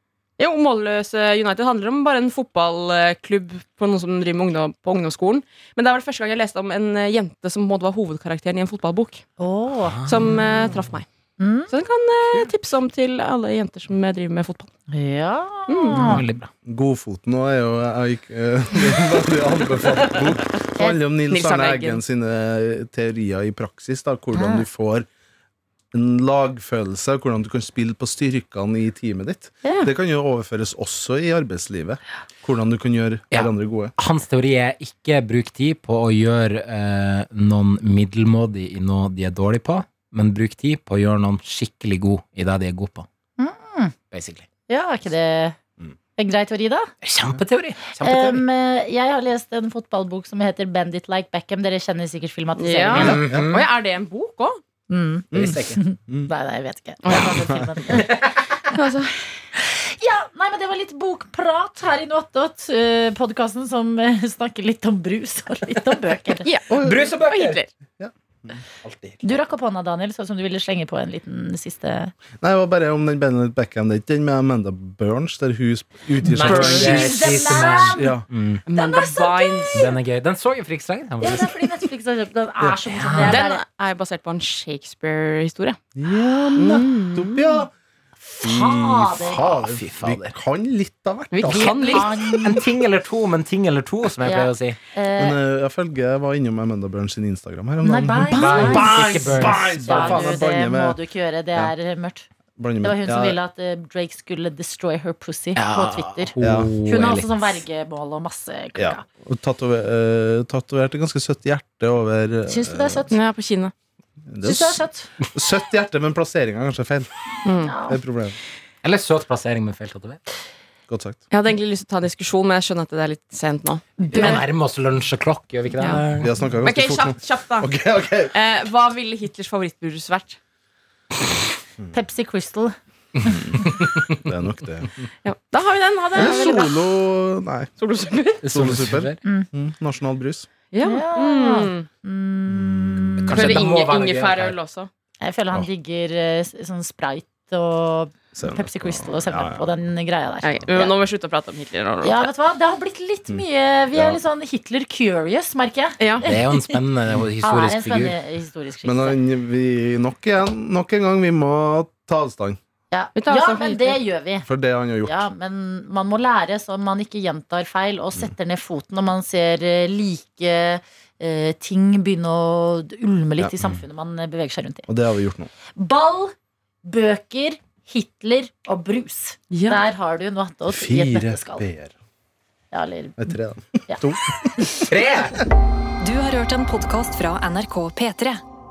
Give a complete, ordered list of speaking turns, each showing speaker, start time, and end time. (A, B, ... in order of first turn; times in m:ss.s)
0:00.4-0:09.3 A
0:09.4-0:10.0 B
0:09.8-0:10.4 C
0:10.1-0:11.1 A
0:11.4-0:11.7 B
0:11.7-0:14.7 A
0:14.9-0:16.2 B
0:15.7-0:16.2 A
0:15.9-0:16.5 C
0:16.6-0:25.1 D
0:21.3-0:22.0 A
0:24.3-0:24.6 B
0:25.9-0:33.9 D
0:29.6-0:29.9 B
0:33.3-0:43.1 C
0:43.4-0:43.9 B
0:44.1-0:44.5 C
0:44.7-0:45.6 B
0:46.2-0:46.9 B
0:47.0-0:48.4 C
0:48.0-0:53.2 B
0:52.6-0:54.6 A
0:52.9-0:53.7 C
0:53.0-0:53.5 D
0:54.9-0:58.1 B
0:55.3-0:56.3 D
0:55.3-0:55.8 C
0:57.0-0:57.5 A
0:57.1-0:57.6 D
0:57.9-0:58.7 C
0:58.7-0:59.2 A
0:59.6-1:06.5 B
1:06.4-1:07.7 A
1:06.7-1:07.1 D
1:06.8-1:07.6 C
1:08.0-1:08.6 D
1:08.9-1:09.2 C
1:09.2-1:12.1 B
1:12.4-1:17.3 D
1:16.2-1:18.6 C
1:16.4-1:17.8 A
1:16.4-1:18.2 B
1:18.0-1:18.3 D
1:18.7-1:19.9 A
1:18.7-1:19.9 B
1:19.7-1:21.7 C
1:21.2-1:23.6 B
1:22.9-1:23.4 C
1:23.2-1:25.8 A
1:26.0-1:27.7 D
1:26.6-1:27.3 A
1:28.3-1:29.4 B
1:28.3-1:32.6 D
1:29.2-1:30.3 C
1:31.3-1:32.1 A
1:31.5-1:32.5 B
1:31.7-1:34.8 C
1:34.2-1:35.4 B
1:35.2-1:41.0 D
1:37.8-1:42.3 B
1:38.3-1:40.4 C
1:42.6-1:43.4 D
1:42.8-1:49.0 B
1:45.6-1:47.3 C
1:46.4-1:46.7 D
1:48.8-1:53.1 D
1:52.5-1:53.2 B
1:53.1-1:53.7 A
1:54.3-1:57.1 D
1:54.4-1:55.1 B
1:57.4-1:57.7 A
1:57.6-1:58.0 B
1:57.9-1:58.4 D
1:58.8-2:00.2 C
2:00.9-2:01.2 D
2:01.3-2:04.4 A
2:04.0-2:04.4 B
2:04.1-2:06.3 C
2:06.2-2:08.3 D
2:06.6-2:07.7 A
2:08.3-2:10.4 A
2:11.9-2:13.4 B
2:13.3-2:14.2 C
2:14.2-2:14.9 D
2:15.2-2:16.8 A
2:16.2-2:17.7 D
2:17.8-2:18.4 A
2:18.4-2:19.2 C
2:18.5-2:20.5 D
2:20.7-2:21.9 A
2:20.8-2:23.6 B
2:22.5-2:23.3 D
2:23.3-2:24.6 C
2:23.3-2:24.9 A
2:25.2-2:30.9 B
2:28.4-2:29.7 D
2:30.4-2:32.3 A
2:32.0-2:36.8 B
2:33.3-2:34.2 D
2:36.0-2:36.3 A
2:36.2-2:38.2 C
2:37.4-2:39.2 B
2:38.8-2:42.6 D
2:42.9-2:44.5 B
2:43.2-2:44.0 A
2:44.5-2:45.3 D
2:45.0-2:54.9 B
2:54.9-2:55.5 D
2:55.8-2:56.3 B
2:56.8-3:01.6 B
2:59.5-2:59.8 A
3:00.7-3:01.9 D
3:02.7-3:03.3 B
3:03.2-3:04.9 D
3:04.6-3:04.9 B
3:04.9-3:05.4 C
3:06.0-3:08.4 E